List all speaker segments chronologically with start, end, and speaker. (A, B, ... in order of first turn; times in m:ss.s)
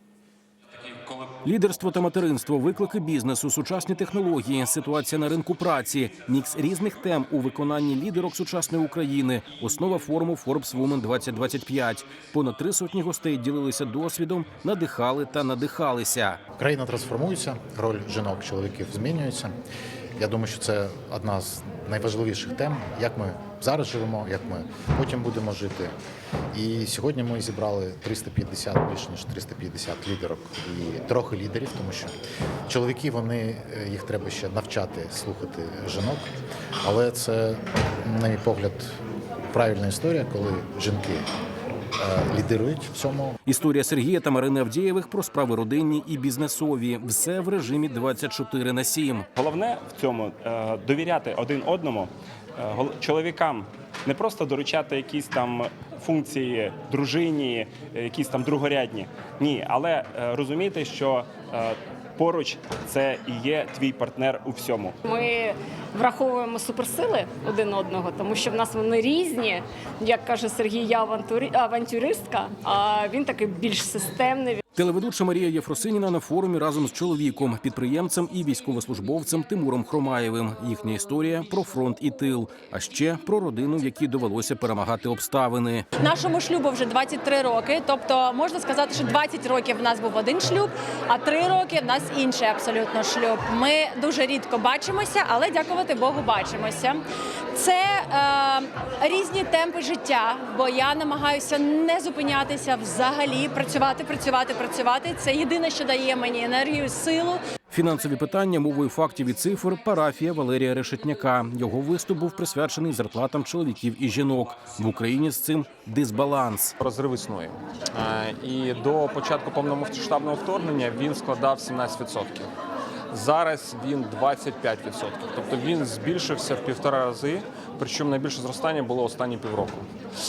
0:01.2-0:16.4 A
0:16.6-0:19.5 B
0:20.2-0:25.9 B
0:26.5-0:32.1 B
0:32.7-0:36.3 B
0:36.8-0:38.9 B
0:39.5-0:41.2 B
0:42.0-0:43.3 B
0:43.5-0:49.3 A
0:49.3-1:04.9 C
1:06.0-1:09.0 D
1:06.7-1:07.6 E
1:08.2-1:09.6 E
1:10.1-1:14.6 D
1:10.6-1:12.9 E
1:13.6-1:14.2 E
1:14.8-1:25.8 A
1:26.0-1:47.4 D
1:47.7-1:56.7 A
1:56.8-2:02.5 F
2:03.1-2:09.9 F